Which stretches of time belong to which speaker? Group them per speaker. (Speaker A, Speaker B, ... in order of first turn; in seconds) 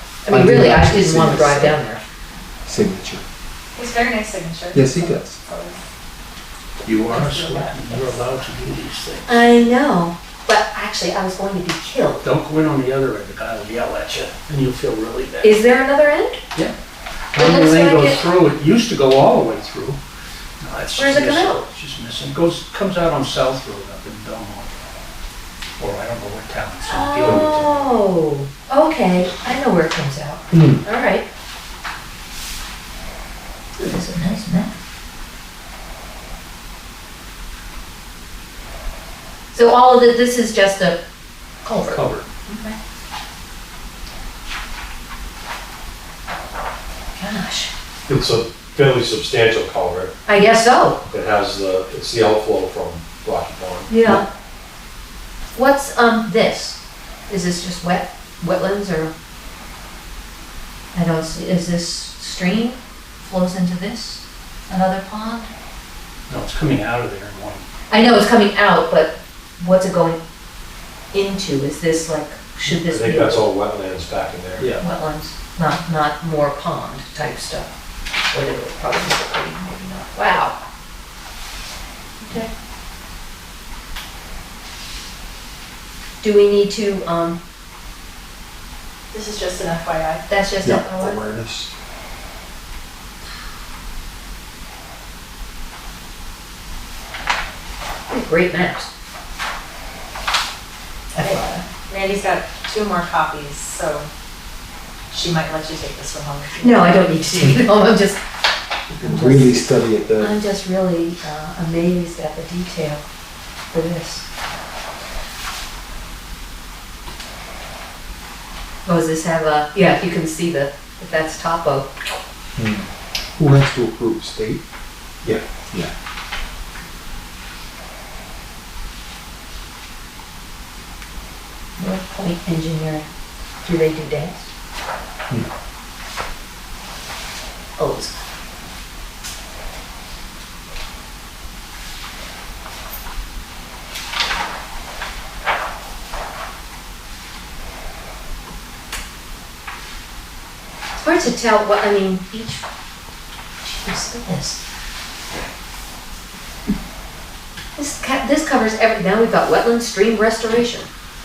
Speaker A: 0.2-2.0, 9.3-12.2, 15.4-16.4, 17.4-18.2, 21.0-21.6, 26.9-31.2, 33.8-34.8, 39.5-41.0, 41.6-42.8, 47.2-47.7, 50.3-51.0, 53.9-54.3, 55.5-56.8, 57.3-59.1, 60.9-65.5, 67.9-70.2, 71.1-73.4, 74.8-77.7, 78.3-80.6, 82.2-82.5, 86.2-87.4, 90.3-91.2, 98.1-98.9, 101.2-101.7, 106.6-108.2, 109.0-113.0, 113.7-114.2, 118.9-121.9, 131.8-133.1, 133.6-134.5, 137.8-138.3, 151.0-152.7, 153.6-154.6, 157.8-160.9
Speaker B: 0.3-1.8, 2.7-3.2, 4.7-5.4, 30.5-30.8, 90.6-91.7, 109.0-110.4, 122.6-124.6, 125.2-125.9
Speaker C: 3.7-5.8, 7.1-8.2, 49.0-49.7, 52.1-52.4, 72.9-74.2, 89.1-90.3, 101.4-104.1, 105.1-107.0
Speaker D: 6.8-9.5, 12.2-15.6, 17.3-20.0, 20.6-24.7, 25.8-27.6, 41.9-42.3, 66.3-67.7, 74.6-74.8
Speaker E: 27.2-27.9, 48.1-50.1, 51.1-54.2, 72.9-73.5, 74.1-74.8